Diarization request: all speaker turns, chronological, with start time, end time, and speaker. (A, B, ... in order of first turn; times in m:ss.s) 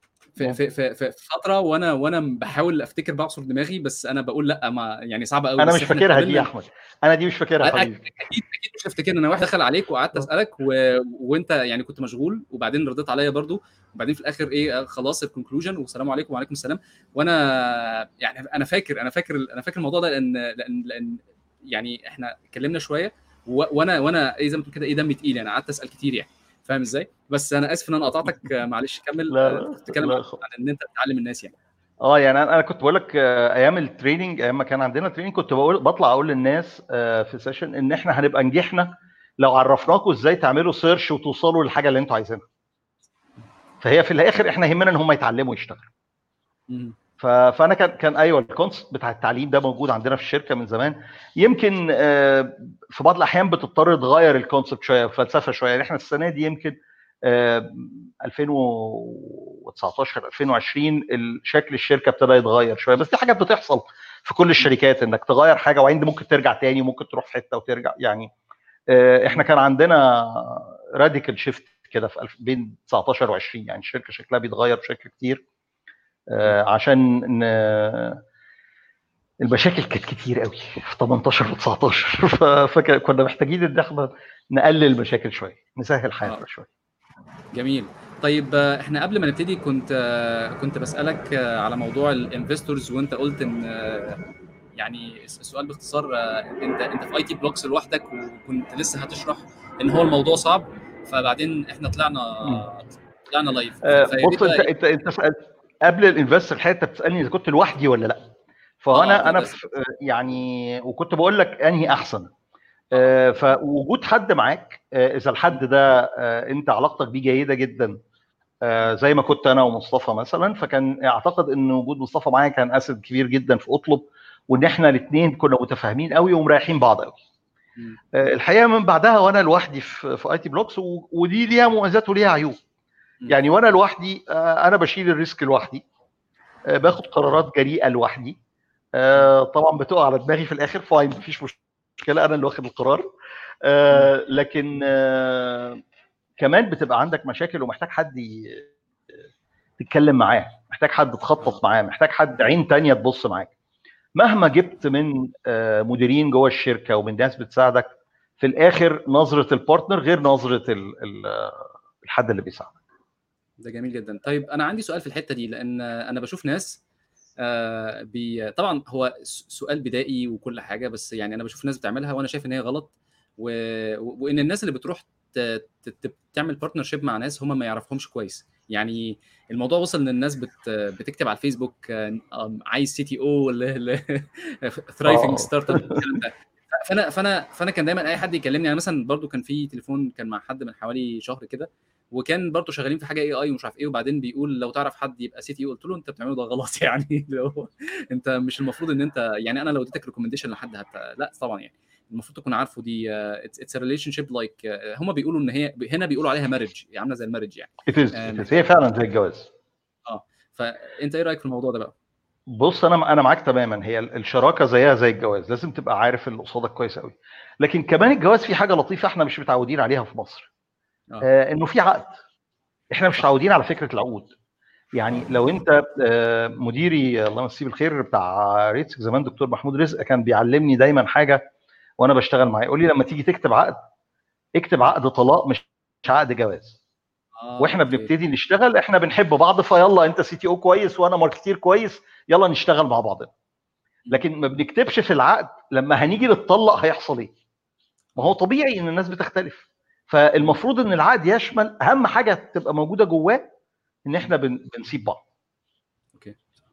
0:00.4-0:06.5 A
0:05.6-0:08.0 B
0:07.6-0:31.6 A
0:29.3-0:30.4 B
0:32.0-0:42.4 B
0:43.8-0:45.9 B
0:46.7-0:47.0 A
0:47.2-1:08.3 B
1:08.9-1:15.4 B
1:16.3-1:18.2 B
1:19.4-1:26.7 B
1:27.5-1:34.2 A
1:34.8-1:44.7 A
1:43.8-1:48.3 B
1:48.8-1:52.3 B
1:48.9-1:49.6 A
1:52.9-1:58.0 B
1:58.6-2:07.2 B
2:08.1-2:12.6 B
2:13.3-2:15.8 B
2:16.7-2:18.4 B
2:19.0-2:23.1 B
2:23.6-2:25.8 B
2:26.4-2:28.7 B
2:29.8-2:33.5 B
2:34.2-2:42.7 B
2:43.6-2:46.8 A
2:47.4-3:28.8 A
3:05.1-3:06.2 B
3:27.9-3:29.5 B
3:30.1-3:31.9 A
3:32.5-3:40.5 B
3:41.2-3:42.2 B
3:42.9-3:44.3 B
3:45.0-3:51.4 B
3:52.0-3:53.8 B
3:54.6-3:56.8 B
3:57.4-3:58.1 A
3:57.6-4:03.3 B
4:04.1-4:07.3 B
4:08.2-4:13.4 B
4:14.1-4:15.2 B